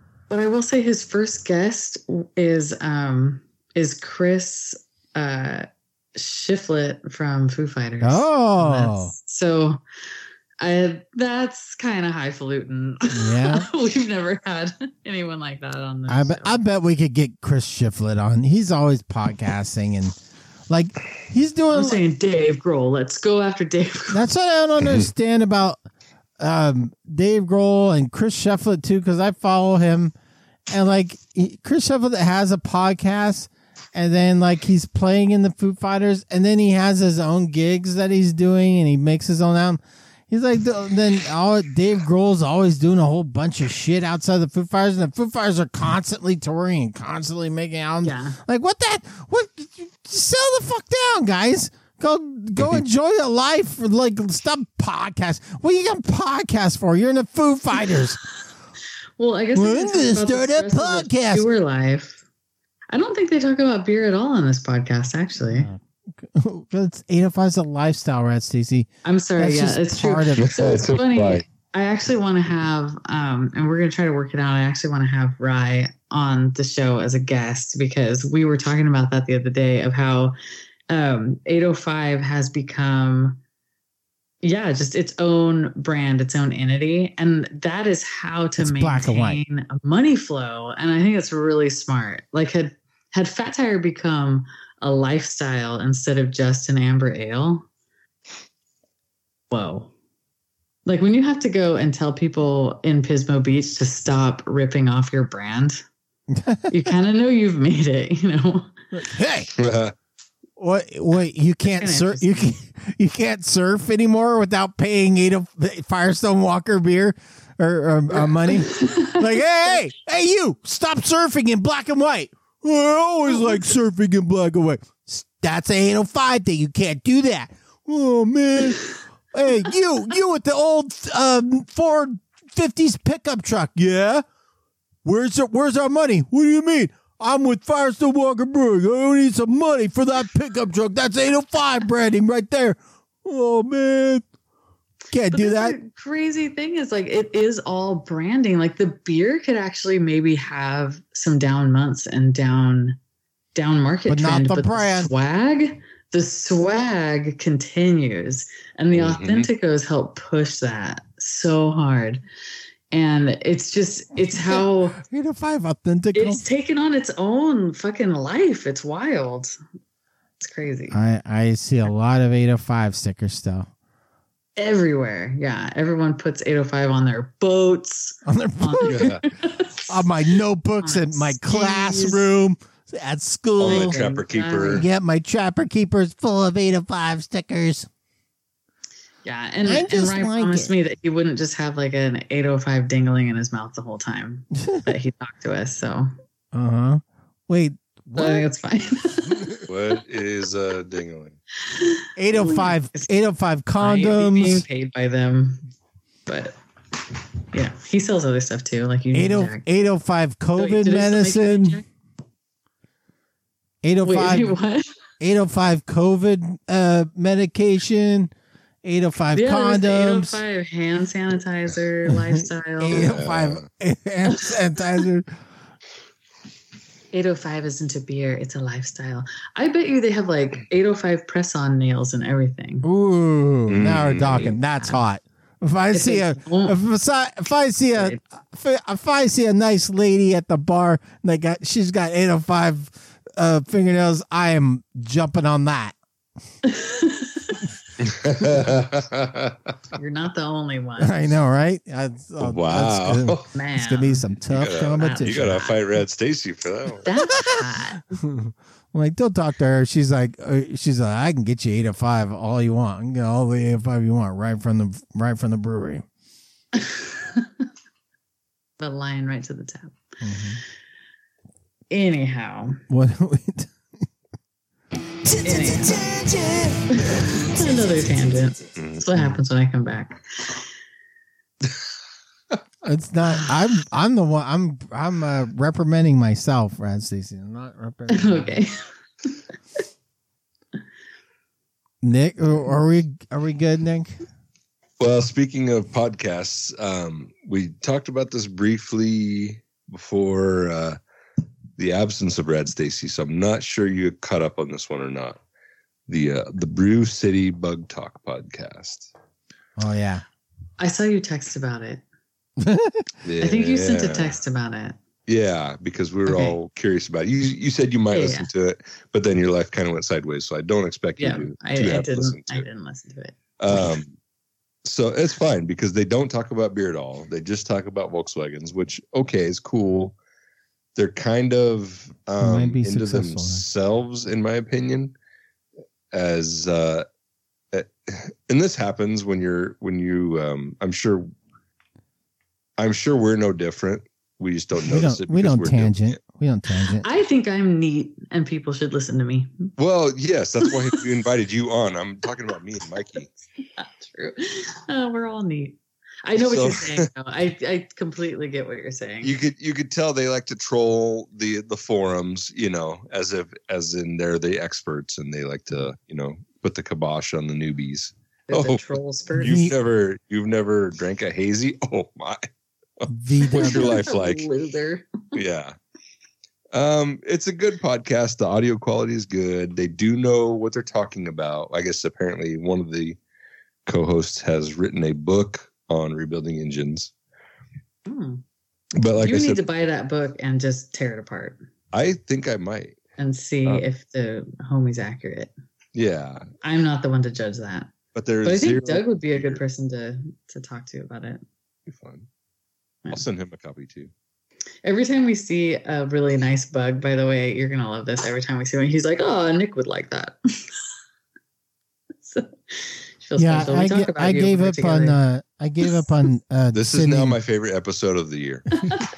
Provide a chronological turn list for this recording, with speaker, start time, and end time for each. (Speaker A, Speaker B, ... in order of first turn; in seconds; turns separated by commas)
Speaker A: 0.3-9.8, Speaker B: 8.0-9.1, Speaker A: 10.6-16.6, Speaker B: 13.1-13.7, Speaker B: 16.1-20.2, Speaker B: 20.7-22.0, Speaker A: 21.7-24.2, Speaker B: 24.1-25.8, Speaker B: 26.4-30.1, Speaker B: 30.7-58.2, Speaker A: 48.0-48.4, Speaker A: 59.2-62.2, Speaker B: 59.5-61.5, Speaker A: 62.9-65.7, Speaker B: 65.5-70.6, Speaker A: 69.0-80.3, Speaker C: 70.4-71.5, Speaker A: 80.9-83.4, Speaker A: 84.4-97.7, Speaker B: 88.6-89.4, Speaker A: 99.5-99.9, Speaker A: 100.9-105.8, Speaker B: 106.3-106.8, Speaker A: 106.7-108.7, Speaker B: 108.9-109.5, Speaker C: 109.6-109.9, Speaker B: 110.6-134.2, Speaker A: 111.7-112.5, Speaker A: 118.1-119.3, Speaker B: 135.0-144.2, Speaker B: 145.1-145.8, Speaker A: 145.3-153.0, Speaker A: 153.6-162.2, Speaker B: 154.1-155.1, Speaker C: 158.9-159.5, Speaker A: 162.9-165.0, Speaker B: 164.3-166.4, Speaker A: 166.1-169.6, Speaker A: 170.4-170.9, Speaker B: 170.9-173.7, Speaker A: 174.6-180.1, Speaker B: 178.3-179.1, Speaker C: 178.8-179.2, Speaker B: 179.9-184.0, Speaker A: 180.8-182.3, Speaker C: 183.6-184.9, Speaker A: 183.6-184.8, Speaker B: 184.7-187.9, Speaker A: 189.2-196.1, Speaker B: 189.7-190.7, Speaker B: 196.5-198.5, Speaker A: 198.2-199.5, Speaker C: 199.7-201.4, Speaker A: 201.7-203.1, Speaker B: 202.2-204.7, Speaker A: 203.8-205.6, Speaker A: 206.3-206.6, Speaker A: 207.5-209.7, Speaker B: 209.1-211.8, Speaker A: 210.6-211.8, Speaker B: 213.8-214.6, Speaker A: 214.0-214.9, Speaker B: 215.2-218.3, Speaker B: 218.8-220.4, Speaker A: 219.3-223.2, Speaker B: 222.1-225.3, Speaker C: 222.9-223.7, Speaker A: 224.3-225.0, Speaker A: 227.1-232.9, Speaker B: 232.8-245.9, Speaker C: 233.7-234.6, Speaker A: 234.4-235.0, Speaker A: 235.9-236.8, Speaker A: 238.0-238.2, Speaker A: 246.7-247.6, Speaker C: 248.0-249.7, Speaker A: 249.9-251.2, Speaker B: 251.0-255.6, Speaker C: 252.4-253.5, Speaker A: 253.5-254.3, Speaker C: 254.5-257.1, Speaker A: 255.0-255.8, Speaker A: 257.1-258.1, Speaker B: 258.1-266.1, Speaker A: 266.7-267.6, Speaker A: 268.8-270.0, Speaker B: 270.2-270.6, Speaker A: 271.9-272.8, Speaker B: 272.9-273.7, Speaker A: 275.4-280.6, Speaker C: 278.8-279.0, Speaker B: 282.8-288.6, Speaker A: 288.1-288.8, Speaker B: 292.0-294.2, Speaker C: 295.0-301.0, Speaker C: 301.8-305.4, Speaker C: 306.1-309.1, Speaker B: 309.8-310.2, Speaker A: 310.8-312.0, Speaker B: 312.6-313.1, Speaker C: 313.2-314.4, Speaker A: 313.4-315.0, Speaker C: 315.3-322.6, Speaker A: 316.3-316.6, Speaker A: 318.1-318.5, Speaker A: 321.2-324.0, Speaker C: 323.6-324.2, Speaker C: 324.9-330.1, Speaker C: 331.0-335.1, Speaker B: 332.4-333.6, Speaker C: 336.1-337.1, Speaker C: 337.7-341.3, Speaker C: 342.8-346.2, Speaker B: 344.9-347.1, Speaker A: 347.0-349.7, Speaker C: 349.8-353.3, Speaker A: 350.6-351.0, Speaker A: 353.8-359.3, Speaker C: 356.4-357.1, Speaker C: 359.2-372.5, Speaker A: 368.5-369.6, Speaker B: 369.4-369.7, Speaker C: 373.0-374.5, Speaker B: 373.1-374.0, Speaker A: 373.5-375.2, Speaker C: 375.3-375.8, Speaker C: 376.7-383.2, Speaker C: 383.9-387.1, Speaker A: 388.1-388.4, Speaker C: 389.0-389.6, Speaker A: 389.2-391.6, Speaker C: 391.9-393.0, Speaker A: 393.2-395.5, Speaker C: 395.9-396.5, Speaker A: 396.6-397.9, Speaker C: 398.1-399.6, Speaker A: 398.4-401.4, Speaker C: 401.9-402.3, Speaker C: 403.1-404.1, Speaker A: 404.8-410.6, Speaker A: 412.2-415.2, Speaker B: 413.4-417.4, Speaker C: 416.7-418.7